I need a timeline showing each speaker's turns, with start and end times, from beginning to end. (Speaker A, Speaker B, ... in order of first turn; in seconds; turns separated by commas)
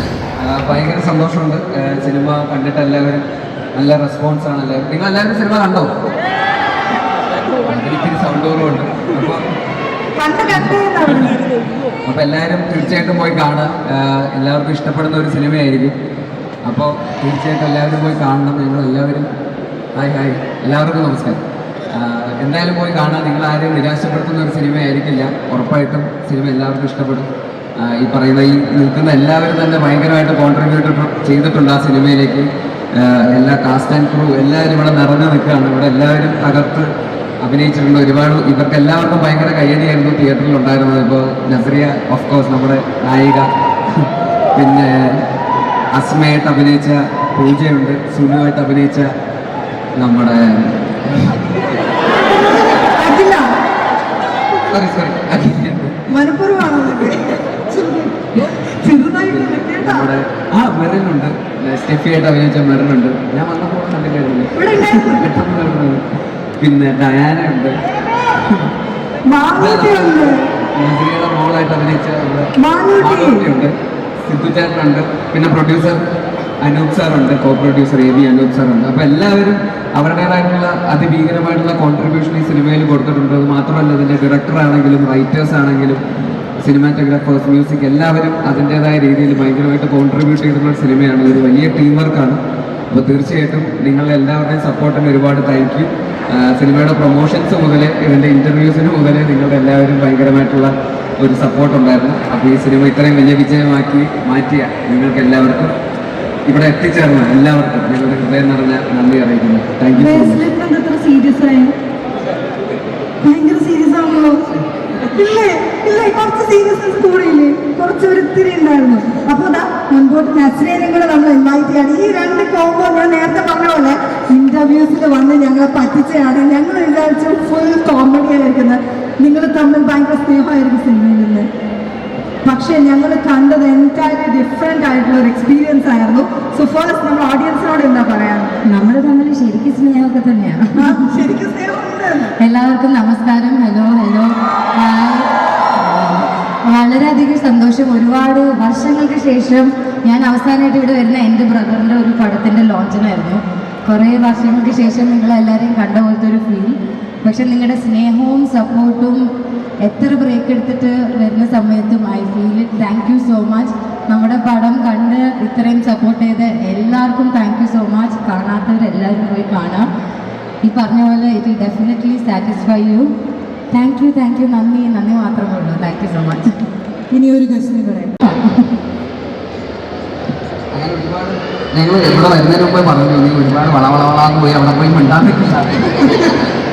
Speaker A: 0.4-3.2, Speaker A: 3.8-6.0, Speaker A: 7.7-9.4, Speaker B: 10.2-11.4, Speaker A: 12.1-15.9, Speaker A: 16.6-19.3, Speaker A: 19.9-36.9, Speaker A: 37.4-45.2, Speaker A: 45.9-49.1, Speaker A: 50.0-51.3, Speaker B: 52.8-53.4, Speaker A: 54.7-55.9, Speaker B: 56.1-60.1, Speaker A: 59.3-66.0, Speaker B: 64.5-65.3, Speaker A: 66.6-67.8, Speaker B: 69.2-70.4, Speaker A: 69.5-73.7, Speaker B: 72.6-73.4, Speaker A: 74.2-76.0, Speaker A: 76.6-86.0, Speaker A: 86.6-105.7, Speaker A: 106.5-110.4, Speaker B: 109.9-111.7, Speaker B: 113.2-114.5, Speaker B: 115.1-131.5, Speaker B: 132.4-138.6, Speaker C: 138.6-141.0, Speaker B: 140.8-142.3, Speaker C: 142.4-159.2, Speaker C: 159.8-169.9, Speaker C: 170.6-173.1, Speaker C: 173.7-176.4, Speaker B: 177.1-178.1, Speaker A: 180.7-186.3